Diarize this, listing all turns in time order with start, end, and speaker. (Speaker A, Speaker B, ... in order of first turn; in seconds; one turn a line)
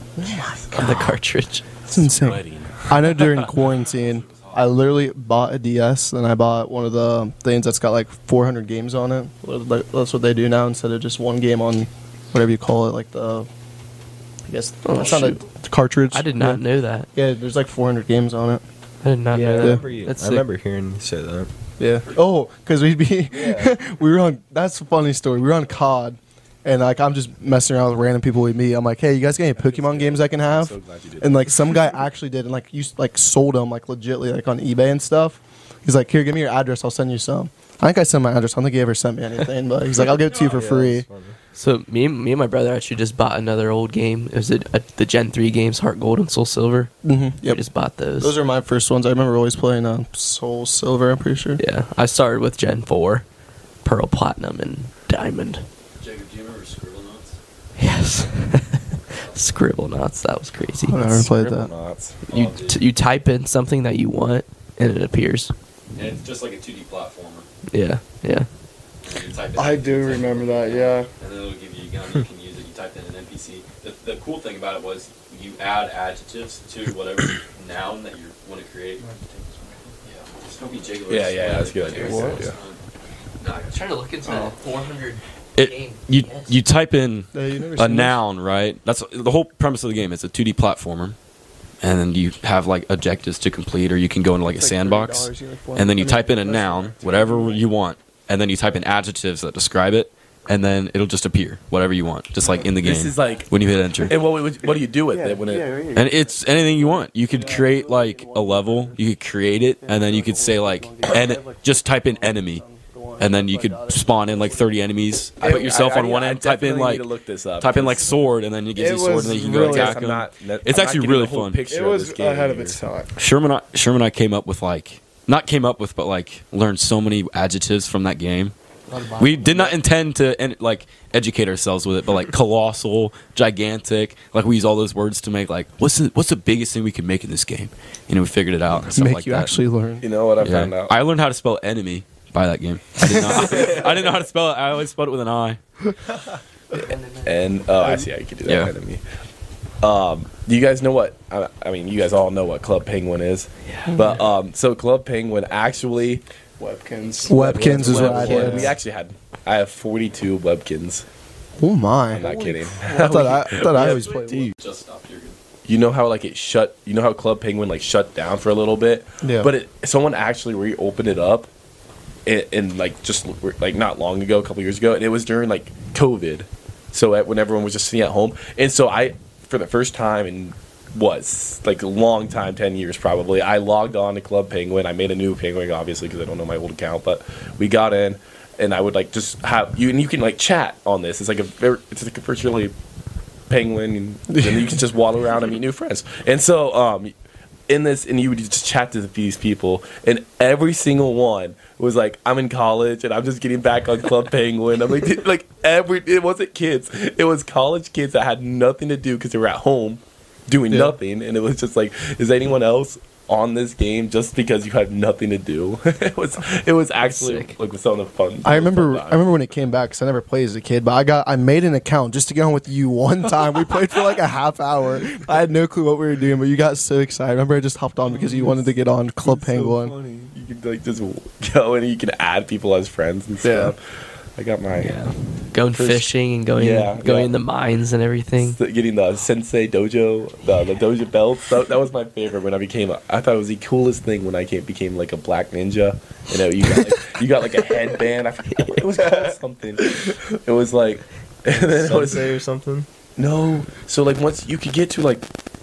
Speaker A: 0.2-0.9
Speaker B: 0.3-0.9
Speaker C: 0.7-1.8
Speaker B: 1.8-3.5
Speaker A: 1.9-13.5
Speaker D: 3.9-4.6
Speaker A: 14.5-16.6
Speaker C: 14.8-15.4
Speaker C: 16.1-17.1
Speaker A: 17.1-18.6
Speaker C: 19.0-20.4
Speaker E: 19.3-21.5
Speaker A: 19.6-19.8
Speaker A: 21.8-41.0
Speaker E: 23.3-23.7
Speaker B: 29.6-31.8
Speaker E: 40.0-41.4
Speaker C: 41.5-46.9
Speaker A: 47.0-47.6
Speaker C: 47.4-48.4
Speaker A: 48.2-51.6
Speaker C: 51.6-53.2
Speaker C: 53.8-55.6
Speaker D: 56.0-57.2
Speaker C: 57.8-61.3
Speaker A: 60.9-61.7
Speaker B: 61.0-62.2
Speaker C: 62.3-65.5
Speaker D: 62.3-62.7
Speaker D: 66.0-67.4
Speaker F: 66.2-66.6
Speaker C: 67.7-68.5
Speaker D: 69.1-77.0
Speaker F: 69.2-79.0
Speaker G: 69.5-71.1
Speaker D: 77.6-78.8
Speaker F: 80.1-82.6
Speaker D: 80.1-82.8
Speaker B: 81.1-82.5
Speaker C: 83.6-86.5
Speaker F: 85.5-91.2
Speaker A: 87.3-88.2
Speaker F: 91.8-104.2
Speaker G: 94.5-97.5
Speaker B: 102.8-105.8
Speaker G: 105.1-105.9
Speaker A: 105.9-109.0
Speaker F: 105.9-112.6
Speaker G: 107.4-107.7
Speaker A: 109.8-114.8
Speaker F: 113.2-117.1
Speaker B: 115.4-117.9
Speaker G: 115.4-115.8
Speaker F: 117.6-121.6
Speaker G: 118.7-120.0
Speaker B: 119.3-122.8
Speaker G: 121.7-123.1
Speaker F: 123.2-128.5
Speaker G: 128.9-129.8
Speaker F: 129.1-139.5
Speaker A: 138.9-140.1
Speaker B: 140.0-140.9
Speaker F: 140.4-145.6
Speaker A: 143.0-143.6
Speaker C: 146.8-147.5
Speaker B: 147.2-149.0
Speaker F: 148.4-148.7
Speaker B: 149.8-156.2
Speaker C: 153.7-153.9
Speaker G: 156.6-158.6
Speaker A: 157.3-158.7
Speaker B: 157.3-161.0
Speaker E: 157.8-158.6
Speaker C: 157.9-158.6
Speaker A: 161.6-164.5
Speaker B: 162.1-164.0
Speaker F: 163.8-165.3
Speaker E: 164.2-164.5
Speaker B: 165.7-171.5
Speaker A: 169.2-169.5
Speaker B: 172.2-192.7
Speaker B: 193.5-197.1
Speaker A: 194.3-194.8
Speaker B: 197.7-219.4
Speaker C: 217.0-217.5
Speaker A: 218.4-229.9
Speaker B: 228.0-233.8
Speaker A: 233.4-233.7
Speaker B: 234.3-235.0
Speaker C: 234.8-238.6
Speaker B: 235.7-237.3
Speaker B: 238.4-252.3
Speaker E: 251.5-252.9
Speaker B: 253.2-255.2